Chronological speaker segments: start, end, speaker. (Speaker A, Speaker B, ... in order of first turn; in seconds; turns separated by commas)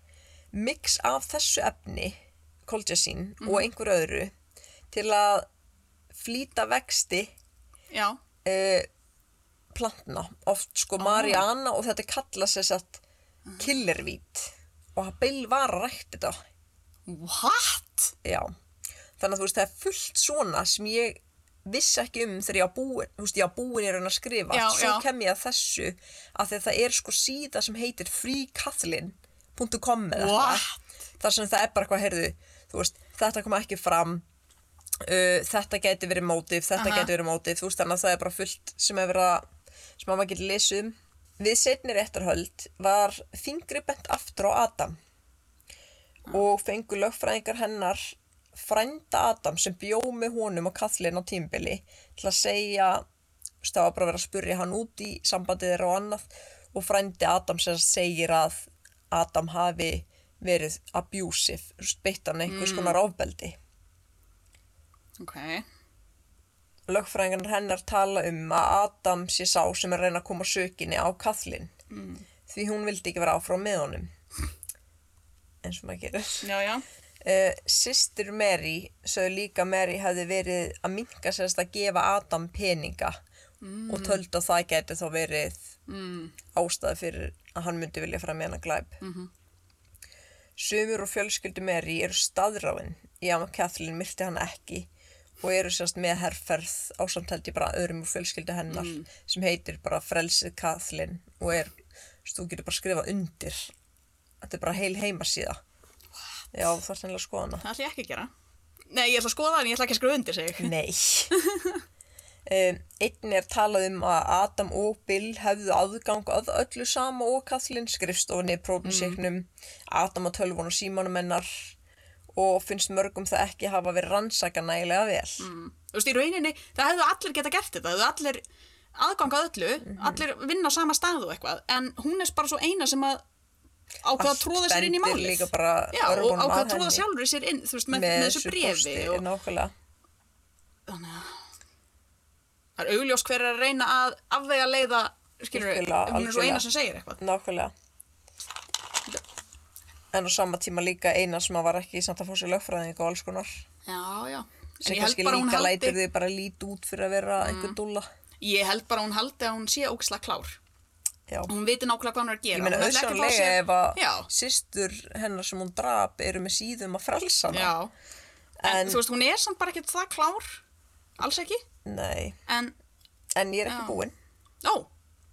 Speaker A: 0.5-4.3, Speaker B: 3.4-3.7, Speaker A: 4.9-5.5, Speaker A: 6.1-7.3, Speaker B: 7.9-8.2, Speaker A: 8.4-8.9, Speaker A: 9.7-13.0, Speaker B: 11.0-11.4, Speaker A: 13.6-16.4, Speaker B: 17.1-18.1, Speaker A: 18.2-18.5, Speaker A: 19.2-30.6, Speaker B: 24.5-25.1, Speaker B: 30.1-30.8, Speaker A: 31.2-34.2, Speaker A: 35.0-39.4, Speaker B: 36.8-37.1, Speaker A: 40.0-44.9, Speaker A: 46.3-53.0, Speaker A: 53.6-63.6, Speaker B: 62.5-63.0, Speaker B: 65.2-65.6, Speaker A: 66.9-71.7, Speaker B: 71.9-72.2, Speaker A: 72.5-74.1, Speaker A: 75.6-76.5, Speaker B: 76.4-76.8, Speaker A: 77.2-83.2, Speaker B: 83.6-84.2, Speaker A: 83.9-85.6, Speaker B: 85.9-86.3, Speaker A: 86.5-89.0, Speaker B: 89.0-89.3, Speaker A: 90.6-94.9, Speaker A: 95.4-103.7, Speaker B: 98.7-99.1, Speaker A: 104.4-105.6, Speaker A: 106.5-107.6, Speaker B: 107.6-108.3, Speaker B: 108.9-110.7, Speaker A: 110.6-111.3, Speaker B: 111.3-111.8, Speaker A: 112.5-121.7, Speaker B: 118.8-119.2, Speaker A: 122.3-125.5, Speaker B: 125.4-128.4, Speaker B: 128.9-133.2, Speaker A: 129.8-130.2, Speaker B: 134.0-139.2, Speaker A: 134.2-137.1, Speaker A: 137.9-139.7, Speaker B: 140.9-141.3, Speaker B: 142.8-147.2, Speaker A: 145.5-146.7, Speaker A: 147.2-147.7, Speaker A: 150.1-153.6, Speaker B: 153.8-156.0, Speaker A: 154.8-158.1, Speaker B: 157.4-157.8, Speaker B: 158.4-160.6, Speaker B: 161.5-164.3, Speaker A: 162.5-167.7, Speaker B: 167.5-167.9, Speaker A: 168.6-169.0, Speaker B: 168.6-170.6, Speaker B: 171.2-171.6, Speaker A: 171.8-172.4, Speaker B: 172.5-172.7, Speaker A: 173.3-174.1, Speaker B: 173.7-174.0, Speaker B: 174.6-174.9